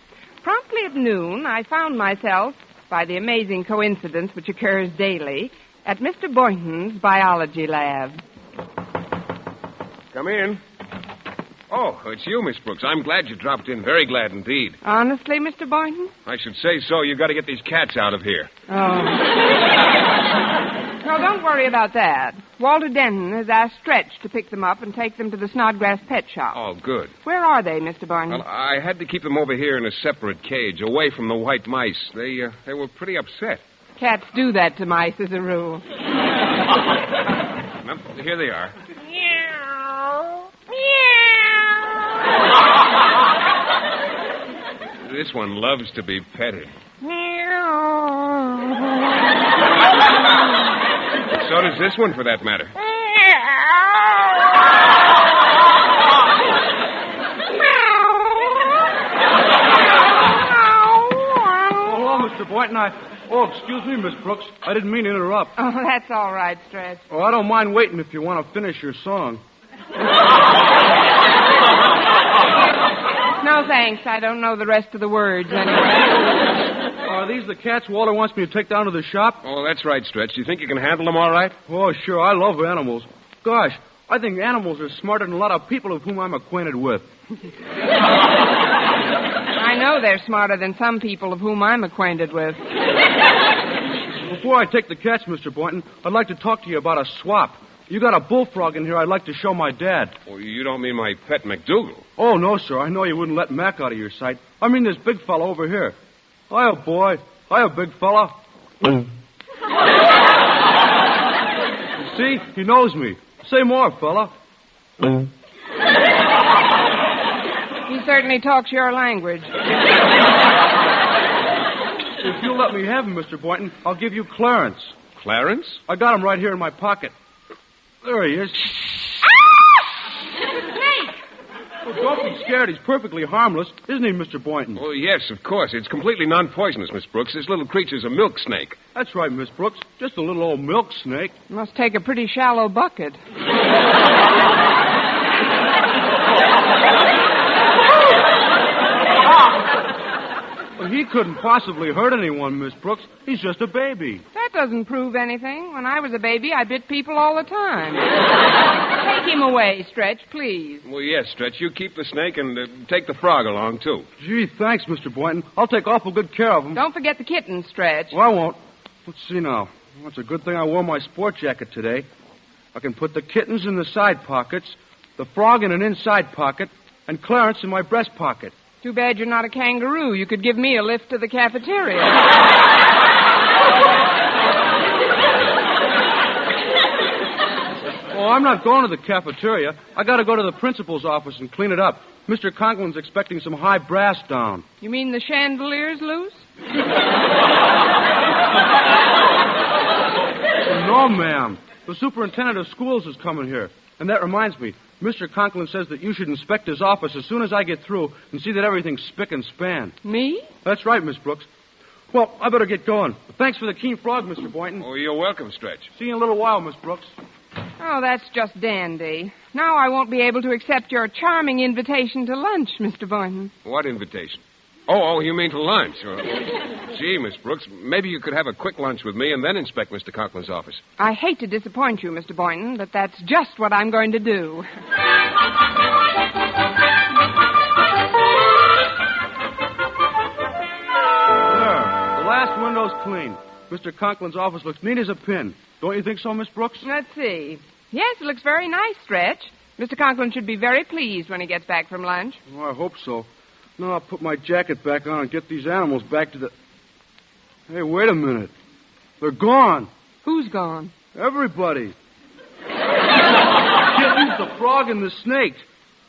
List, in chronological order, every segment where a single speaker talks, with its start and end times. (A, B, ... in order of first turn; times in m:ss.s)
0:00.4-0:08.2 A
0:10.1-0:10.6 B
0:11.7-0:14.8 B
0:14.8-0:16.1 A
0:16.3-0:18.5 B
0:18.7-0:19.3 A
0:21.0-0:26.6 A
0:26.5-0:27.1 B
0:27.2-0:28.4 A
0:28.3-0:33.6 B
0:34.0-0:35.8 A
0:37.8-0:38.8 B
0:45.0-0:46.7 B
0:51.4-0:52.7 B
0:57.6-0:58.8 A
1:00.2-1:01.9 A
1:01.8-1:05.5 C
1:05.6-1:07.0 A
1:07.1-1:09.4 C
1:13.4-1:16.2 A
1:17.0-1:19.4 C
1:19.4-1:21.6 B
1:21.7-1:27.1 C
1:29.6-1:32.6 A
1:34.2-1:40.1 C
1:40.3-1:42.0 B
1:42.2-1:46.0 C
1:46.5-1:48.3 C
1:52.0-1:54.3 C
1:57.9-1:59.5 A
2:02.2-2:04.9 C
2:05.2-2:05.8 B
2:05.9-2:07.1 C
2:08.0-2:08.8 C
2:11.8-2:14.8 C
2:14.8-2:18.8 B
2:19.0-2:21.3 C
2:21.5-2:23.2 A
2:30.8-2:34.2 C
2:34.3-2:38.1 A
2:38.9-2:40.8 A
2:40.8-2:44.1 B
2:44.2-2:46.8 C
2:46.7-2:48.2 A
2:48.1-2:52.1 C
2:52.7-2:58.5 C
2:58.8-3:02.3 A
3:08.1-3:14.6 C
3:14.8-3:16.4 A
3:20.7-3:29.9 C
3:30.0-3:30.5 A
3:30.6-3:31.5 C
3:32.1-3:34.9 C
3:34.8-3:35.9 B
3:36.0-3:37.1 C
3:37.8-3:43.5 A
3:43.6-3:50.8 B
3:51.0-3:54.7 A
4:01.5-4:06.8 C
4:06.8-4:12.4 A
4:12.5-4:16.5 C
4:17.7-4:18.5 C
4:19.2-4:19.9 C
4:20.2-4:20.9 A
4:21.1-4:21.9 C
4:23.9-4:25.6 C